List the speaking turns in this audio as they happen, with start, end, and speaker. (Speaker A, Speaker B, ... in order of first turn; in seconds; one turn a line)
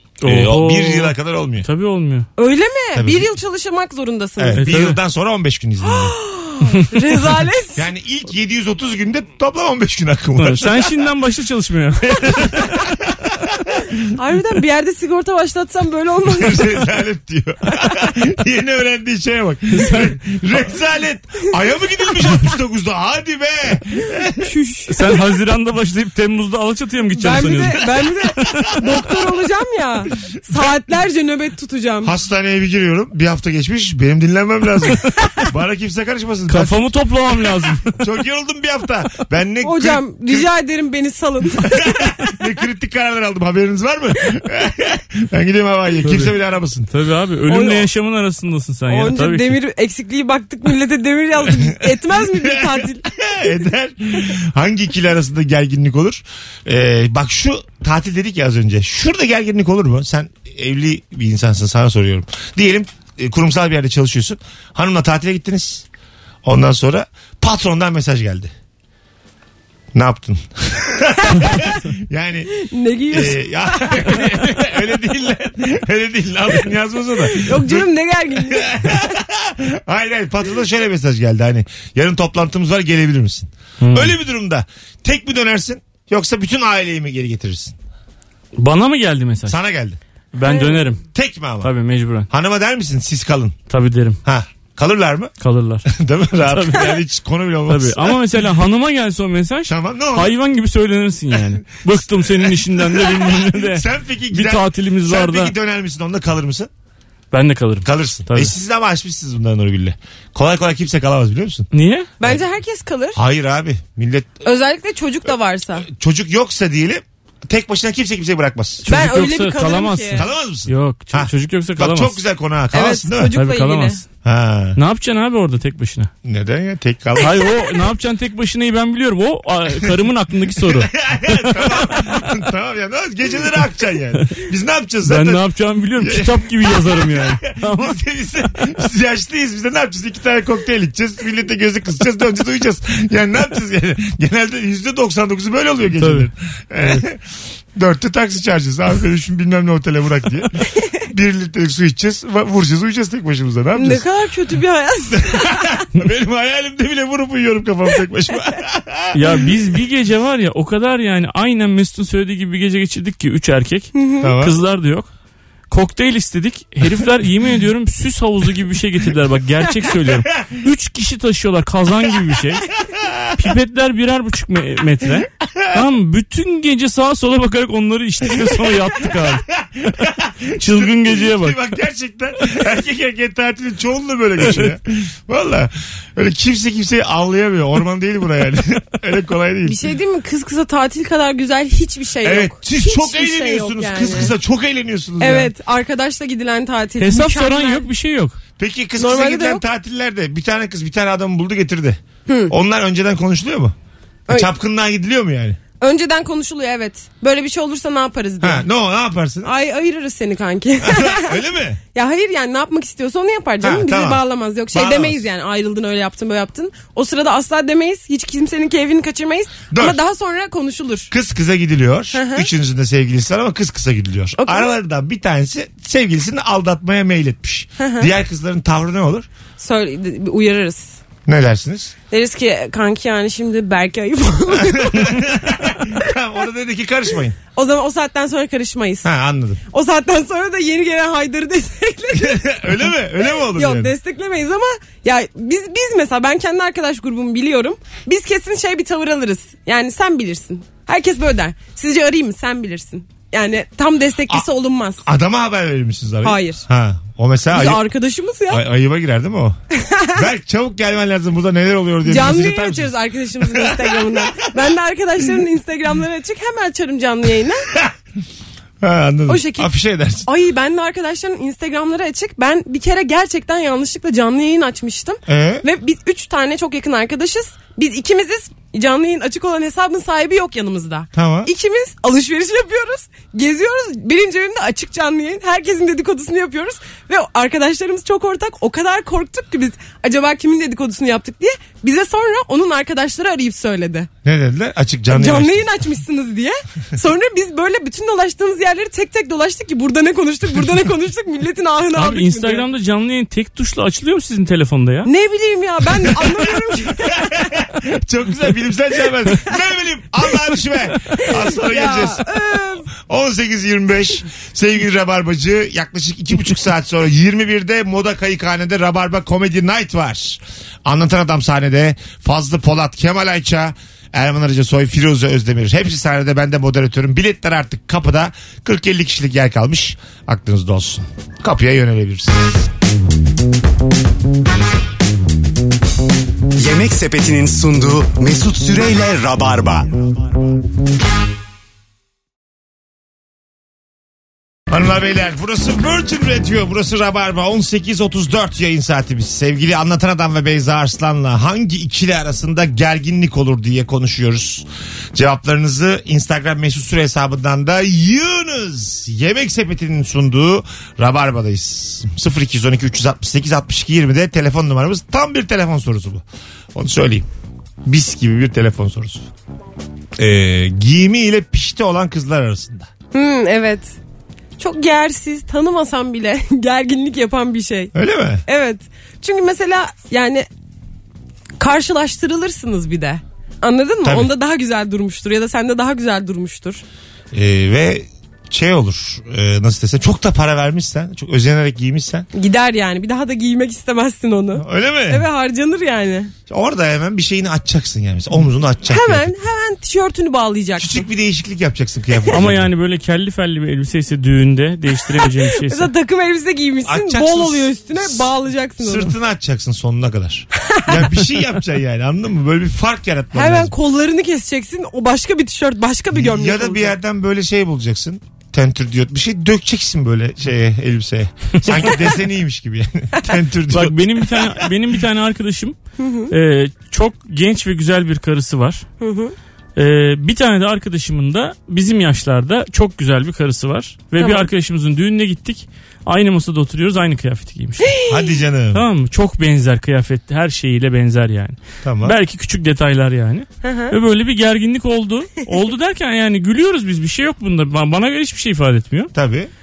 Speaker A: 0.2-2.3
Speaker B: 0.2-1.6
Speaker C: 2.4-4.6
Speaker B: 2.9-3.3
Speaker B: 4.4-6.2
Speaker A: 4.6-5.0
Speaker C: 5.8-7.8
Speaker B: 7.7-10.9
Speaker A: 10.4-12.8
Speaker B: 12.6-13.9
Speaker C: 14.1-16.8
Speaker B: 16.3-24.5
Speaker A: 19.7-20.2
Speaker C: 24.4-25.2
Speaker A: 24.9-28.7
Speaker C: 27.1-32.1
Speaker B: 28.5-29.0
Speaker B: 32.0-36.8
Speaker A: 36.5-38.0
Speaker B: 37.9-40.5
Speaker C: 39.6-42.3
Speaker B: 41.6-46.9
Speaker A: 46.0-46.3
Speaker A: 46.9-49.6
Speaker C: 47.5-47.9
Speaker C: 48.9-53.1
Speaker B: 51.6-65.8
Speaker B: 66.4-68.5
Speaker B: 69.9-72.5
Speaker C: 72.5-74.3
Speaker B: 73.1-87.7
Speaker C: 77.3-79.0
Speaker A: 83.8-84.1
Speaker A: 88.5-89.6
Speaker B: 89.5-90.0
Speaker A: 90.3-91.0
Speaker C: 90.5-90.8
Speaker B: 91.1-91.7
Speaker A: 91.6-92.3
Speaker B: 92.3-93.5
Speaker A: 93.7-94.2
Speaker B: 94.2-95.3
Speaker A: 95.4-95.9
Speaker B: 95.9-98.2
Speaker A: 96.4-97.0
Speaker A: 97.7-105.5
Speaker B: 99.7-100.3
Speaker B: 101.8-106.7
Speaker A: 107.3-108.5
Speaker B: 107.8-111.7
Speaker A: 111.7-112.1
Speaker C: 112.2-113.2
Speaker B: 113.1-114.4
Speaker C: 114.4-115.9
Speaker B: 115.8-118.8
Speaker A: 118.8-122.2
Speaker C: 118.9-120.2
Speaker B: 120.1-123.4
Speaker C: 122.7-124.0
Speaker A: 123.3-124.0
Speaker B: 124.2-124.8
Speaker A: 124.8-126.1
Speaker B: 126.2-127.5
Speaker A: 127.2-132.3
Speaker B: 130.6-135.4
Speaker A: 135.0-138.0
Speaker B: 136.0-147.2
Speaker A: 145.9-146.3
Speaker B: 147.7-154.0
Speaker C: 153.7-155.8
Speaker B: 155.1-159.3
Speaker A: 159.1-165.1
Speaker C: 163.9-164.3
Speaker B: 164.2-164.6
Speaker A: 165.7-172.7
Speaker B: 172.8-173.3
Speaker A: 173.3-179.4
Speaker B: 175.4-175.7
Speaker B: 179.5-189.8
Speaker A: 180.6-181.6
Speaker C: 189.6-194.3
Speaker B: 192.2-195.5
Speaker C: 195.2-197.9
Speaker A: 197.0-198.4
Speaker B: 198.6-203.7
Speaker C: 199.0-199.6
Speaker C: 202.3-202.5
Speaker B: 204.3-205.6
Speaker C: 205.8-208.7
Speaker B: 208.4-209.5
Speaker C: 209.4-211.4
Speaker B: 210.8-211.8
Speaker C: 211.9-221.1
Speaker B: 213.6-215.2
Speaker B: 219.7-220.0
Speaker B: 221.1-229.3
Speaker C: 222.1-222.5
Speaker C: 224.4-224.7
Speaker C: 227.8-228.1
Speaker C: 229.6-231.0
Speaker B: 231.2-231.9
Speaker C: 232.1-235.4
Speaker B: 234.5-237.3
Speaker C: 237.5-239.1
Speaker B: 239.0-239.6
Speaker C: 239.7-255.0
Speaker B: 242.1-243.9
Speaker B: 255.0-257.9
Speaker C: 256.2-256.6
Speaker C: 257.5-258.6
Speaker B: 258.5-259.6
Speaker C: 259.7-260.2
Speaker B: 260.1-264.2
Speaker C: 262.0-267.7
Speaker B: 268.8-270.3
Speaker C: 269.3-269.7
Speaker C: 270.2-294.1
Speaker B: 275.3-275.6
Speaker B: 281.1-281.5
Speaker B: 294.2-295.6
Speaker C: 295.1-302.6
Speaker A: 301.9-305.1
Speaker C: 305.0-307.5
Speaker B: 306.9-312.3
Speaker C: 311.2-312.9
Speaker B: 312.9-332.7
Speaker D: 336.6-340.2
Speaker B: 344.7-366.2
Speaker B: 366.7-367.3
Speaker B: 367.8-369.3
Speaker B: 370.2-372.9
Speaker C: 373.1-373.9
Speaker C: 374.6-377.9
Speaker B: 377.9-378.4
Speaker C: 378.4-380.5
Speaker C: 381.6-386.8
Speaker B: 384.0-384.3
Speaker B: 387.3-392.3
Speaker C: 392.3-396.3
Speaker B: 394.6-395.2
Speaker B: 396.5-399.3
Speaker C: 398.9-401.0
Speaker B: 400.8-402.7
Speaker A: 402.3-405.9
Speaker C: 405.2-409.1
Speaker B: 406.9-413.7
Speaker C: 410.6-411.0
Speaker C: 413.3-416.9
Speaker B: 416.1-424.7
Speaker A: 423.7-425.8
Speaker C: 426.0-426.3
Speaker A: 426.3-428.8
Speaker C: 429.0-429.3
Speaker A: 429.8-437.9
Speaker C: 434.2-434.5
Speaker C: 437.8-438.4
Speaker B: 438.1-438.8
Speaker A: 438.7-449.1
Speaker B: 441.8-442.2
Speaker C: 443.6-443.9
Speaker B: 449.1-449.5